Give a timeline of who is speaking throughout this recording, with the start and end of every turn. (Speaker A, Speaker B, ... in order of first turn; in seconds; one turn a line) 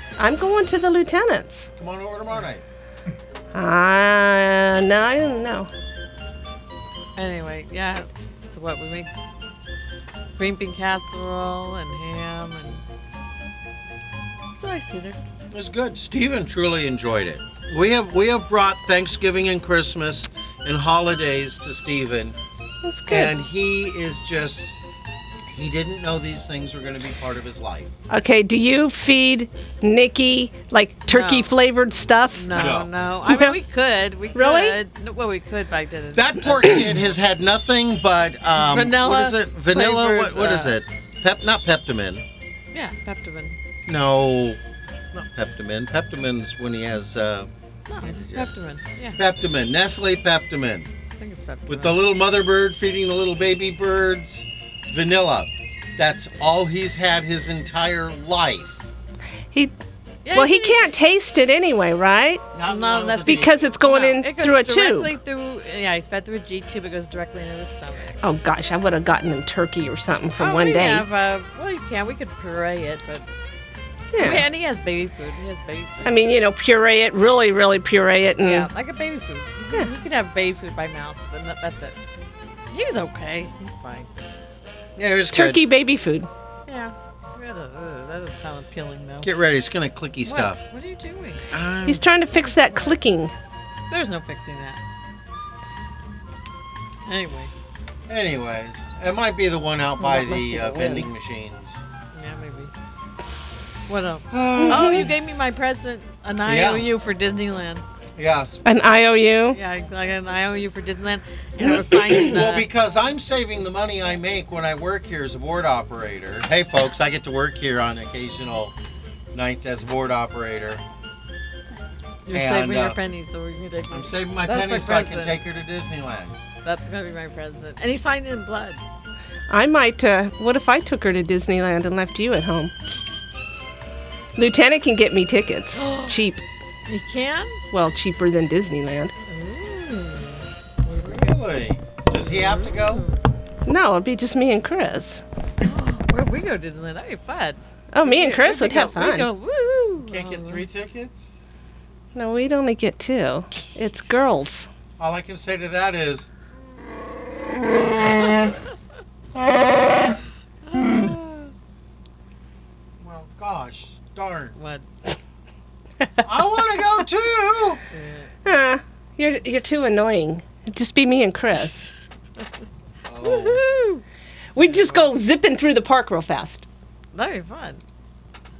Speaker A: 0.2-1.7
Speaker B: 1.8-2.6
Speaker A: 3.5-5.7
Speaker C: 7.2-9.1
Speaker C: 10.4-12.8
Speaker C: 14.5-15.2
Speaker B: 15.5-22.4
Speaker A: 22.8-23.4
Speaker B: 23.1-24.8
Speaker B: 25.5-27.9
Speaker A: 28.1-32.7
Speaker C: 31.1-31.5
Speaker C: 32.3-36.7
Speaker B: 32.5-32.9
Speaker A: 33.2-33.6
Speaker A: 34.3-34.8
Speaker B: 36.1-42.2
Speaker C: 38.6-40.7
Speaker C: 42.7-43.6
Speaker B: 43.9-44.6
Speaker B: 45.2-47.5
Speaker C: 47.9-49.2
Speaker B: 48.0-48.5
Speaker B: 49.2-50.9
Speaker C: 51.2-52.0
Speaker B: 51.7-58.8
Speaker C: 60.2-60.9
Speaker A: 60.3-62.5
Speaker B: 62.5-63.6
Speaker C: 62.7-68.2
Speaker A: 63.3-65.2
Speaker A: 68.2-71.1
Speaker C: 70.4-73.2
Speaker A: 74.1-74.5
Speaker C: 74.2-76.3
Speaker A: 76.0-78.7
Speaker C: 78.4-82.0
Speaker C: 82.7-84.1
Speaker B: 85.0-85.6
Speaker A: 85.3-86.3
Speaker C: 86.7-89.3
Speaker B: 89.2-90.6
Speaker C: 90.2-91.4
Speaker B: 91.5-92.1
Speaker A: 91.9-93.3
Speaker C: 92.4-92.9
Speaker C: 93.9-94.8
Speaker C: 97.1-97.5
Speaker B: 98.1-101.8
Speaker C: 100.0-101.0
Speaker C: 102.1-102.7
Speaker C: 103.9-107.8
Speaker B: 104.3-105.1
Speaker A: 104.6-105.1
Speaker B: 106.5-106.8
Speaker B: 108.2-108.6
Speaker A: 108.7-109.6
Speaker C: 109.5-112.7
Speaker A: 111.6-112.2
Speaker B: 112.1-118.7
Speaker B: 119.3-120.8
Speaker C: 122.3-125.4
Speaker B: 122.3-123.0
Speaker B: 123.9-126.4
Speaker C: 126.6-128.8
Speaker A: 129.5-132.7
Speaker A: 134.4-136.4
Speaker C: 135.8-136.2
Speaker C: 136.9-137.6
Speaker A: 137.7-139.1
Speaker C: 139.3-141.3
Speaker B: 141.1-143.1
Speaker C: 142.2-143.2
Speaker A: 143.7-145.2
Speaker C: 145.6-150.7
Speaker A: 147.9-149.3
Speaker B: 150.0-151.4
Speaker A: 152.2-154.7
Speaker B: 155.0-156.3
Speaker C: 160.7-161.5
Speaker B: 163.0-164.6
Speaker C: 164.6-164.9
Speaker B: 166.2-167.8
Speaker C: 167.9-168.3
Speaker A: 168.4-171.8
Speaker B: 173.1-173.6
Speaker C: 173.2-174.0
Speaker A: 174.6-176.7
Speaker C: 174.6-175.1
Speaker C: 177.1-177.8